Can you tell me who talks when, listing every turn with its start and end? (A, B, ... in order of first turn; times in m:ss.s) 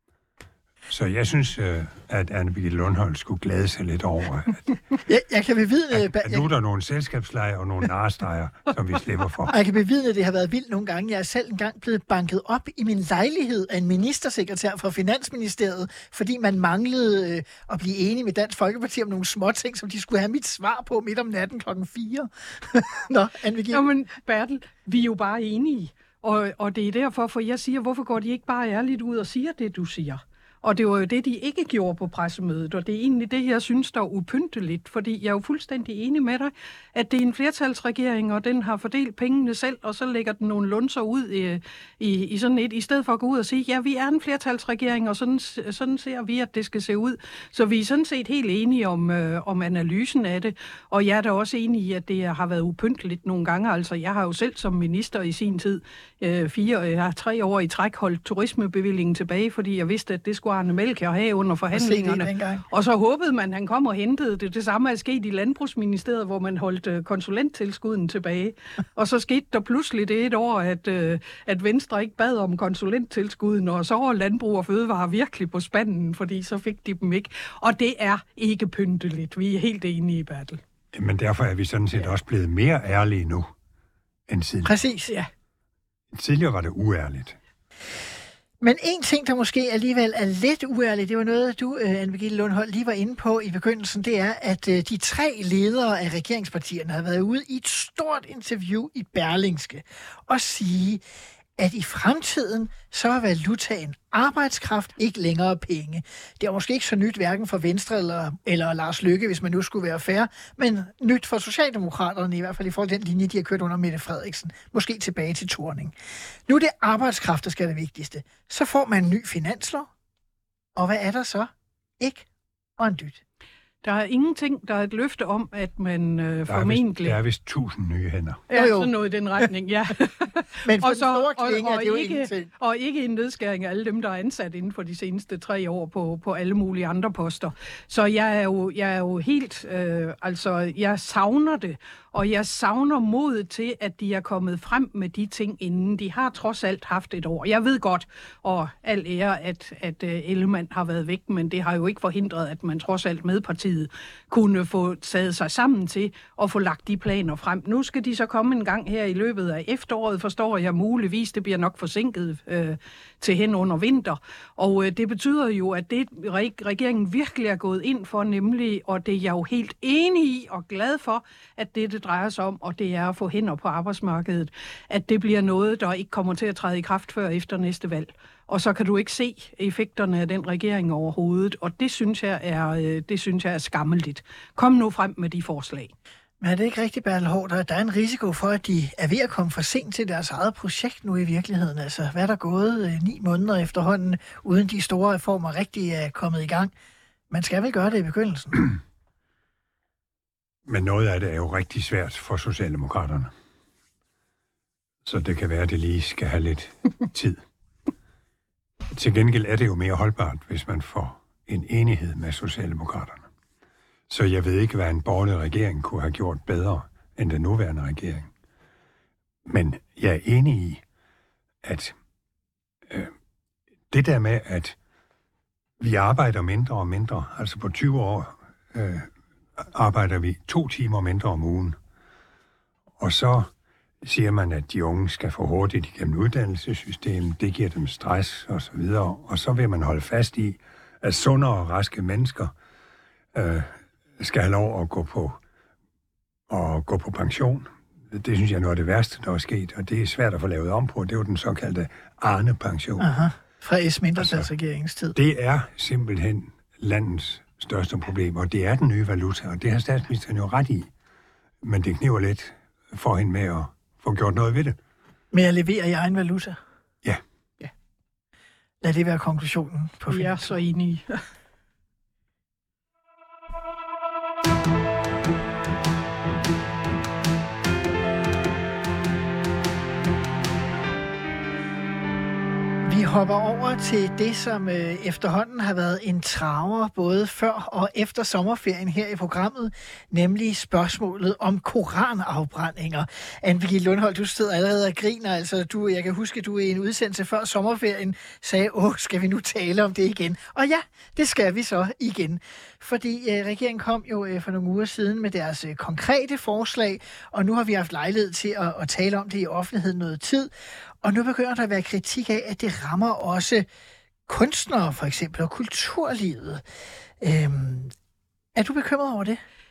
0:00.9-0:04.6 A
0:05.0-0:06.4 B
0:05.9-0:09.5 A
0:09.5-0:23.8 B
0:23.7-1:20.6 C
1:01.7-1:02.6 B
1:20.9-1:23.5 A
1:24.3-1:24.7 A
1:24.6-1:25.1 B
1:26.1-1:27.4 A
1:28.6-1:41.0 B
1:41.6-1:55.9 B
1:56.5-1:59.9 B
2:00.7-2:03.2 B
2:03.8-2:07.2 C
2:06.5-2:08.4 A
2:08.5-3:05.9 C
2:08.5-2:08.9 B
2:10.6-2:12.5 B
3:06.4-3:16.7 B
3:17.3-3:18.7 B
3:20.6-3:23.3 A
3:25.0-3:27.4 A
3:28.9-3:33.2 A
3:34.1-3:38.3 A
3:39.5-3:40.8 A
3:41.6-3:41.9 A
3:43.9-3:44.8 A
3:45.8-3:51.8 A
3:53.0-3:53.5 A
3:54.0-4:02.5 A
4:03.3-4:05.4 A
4:06.5-4:13.1 A
4:13.0-4:15.1 B
4:14.2-4:14.5 A
4:15.1-4:20.9 A
4:21.6-4:24.8 A
4:25.3-4:26.6 B
4:28.8-4:30.6 B
4:30.1-4:31.2 C
4:42.8-5:10.5 B
5:11.0-5:13.6 B
5:14.3-5:16.6 B
5:17.2-5:17.9 B
5:18.5-5:19.4 B